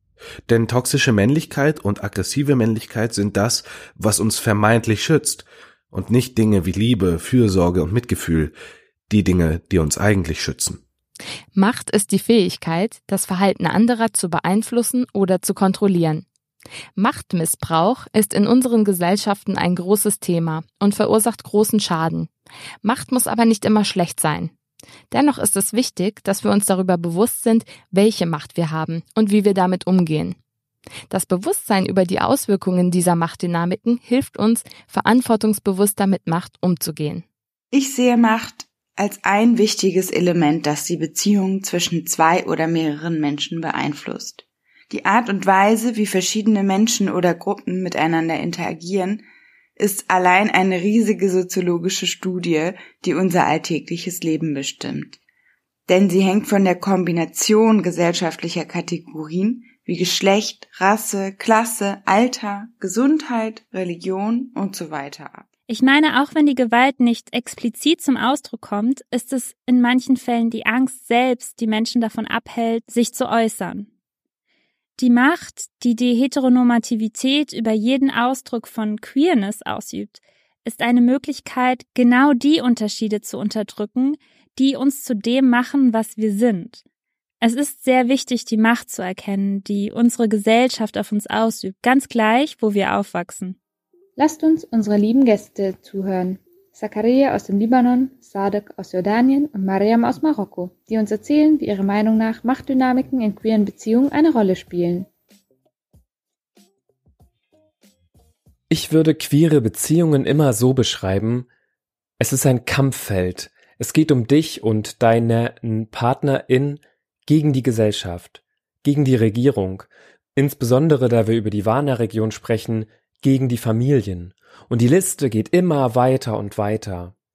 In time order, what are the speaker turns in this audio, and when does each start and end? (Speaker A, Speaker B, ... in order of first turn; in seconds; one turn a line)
Speaker A: 0.5-8.5
Speaker A: 9.1-10.8
Speaker B: 11.5-16.2
Speaker B: 16.9-22.3
Speaker B: 22.8-24.5
Speaker B: 25.1-30.4
Speaker B: 31.1-37.2
Speaker C: 37.7-49.2
Speaker C: 49.8-55.2
Speaker C: 55.9-65.5
Speaker D: 65.7-73.9
Speaker D: 75.0-86.8
Speaker D: 87.4-93.6
Speaker E: 94.2-105.1
Speaker F: 108.7-111.5
Speaker F: 112.2-127.1